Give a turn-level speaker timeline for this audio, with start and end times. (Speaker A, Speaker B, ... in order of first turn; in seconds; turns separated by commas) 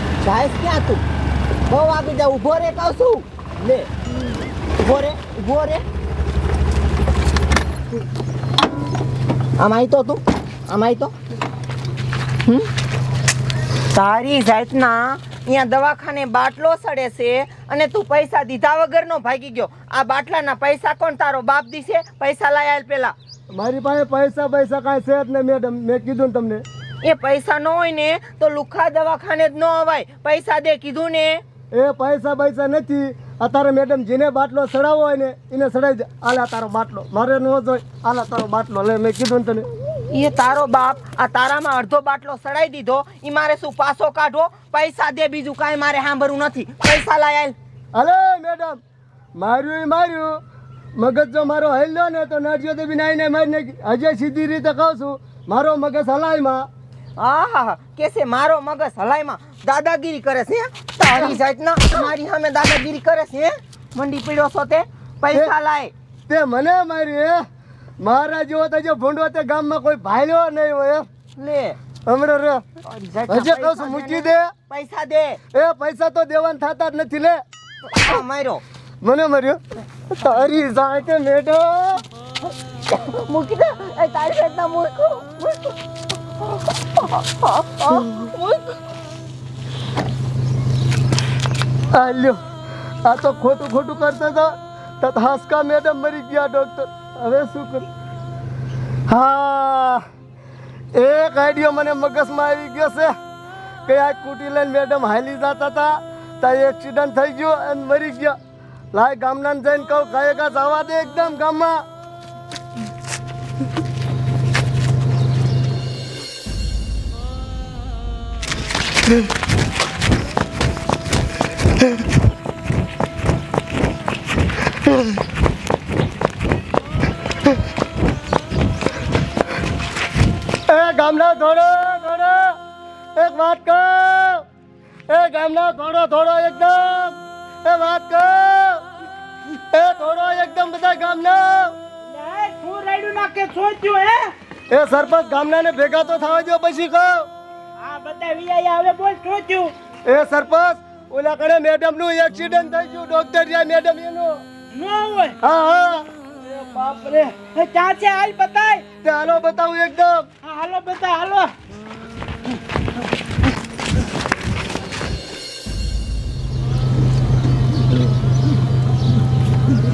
Speaker A: 0.2-1.0, Speaker A: 1.6-3.9, Speaker A: 4.8-5.8, Speaker A: 9.6-11.1, Speaker A: 13.9-23.1, Speaker B: 23.5-26.6, Speaker A: 27.0-31.4, Speaker B: 31.7-39.7, Speaker A: 40.1-47.5, Speaker B: 47.9-48.8, Speaker B: 49.4-50.4, Speaker B: 51.0-56.7, Speaker A: 57.2-65.9, Speaker B: 61.1-61.4, Speaker B: 66.3-67.4, Speaker B: 68.0-71.0, Speaker A: 71.4-71.8, Speaker B: 72.1-72.6, Speaker A: 72.8-75.4, Speaker B: 73.3-74.5, Speaker B: 75.5-77.4, Speaker A: 77.9-78.6, Speaker B: 79.0-79.6, Speaker B: 80.1-82.0, Speaker A: 82.9-85.8, Speaker A: 86.6-88.7, Speaker B: 91.9-92.4, Speaker B: 93.0-97.8, Speaker B: 99.1-100.0, Speaker B: 101.0-103.1, Speaker B: 103.9-108.4, Speaker B: 108.9-111.8, Speaker B: 130.7-132.5, Speaker B: 133.2-134.4, Speaker B: 135.1-138.8, Speaker B: 139.7-141.7, Speaker C: 142.0-144.3, Speaker B: 144.7-147.3, Speaker C: 147.8-149.7, Speaker B: 150.1-154.4, Speaker C: 154.7-155.4, Speaker B: 155.4-156.1, Speaker C: 156.5-158.8, Speaker B: 159.0-160.3, Speaker C: 160.4-161.5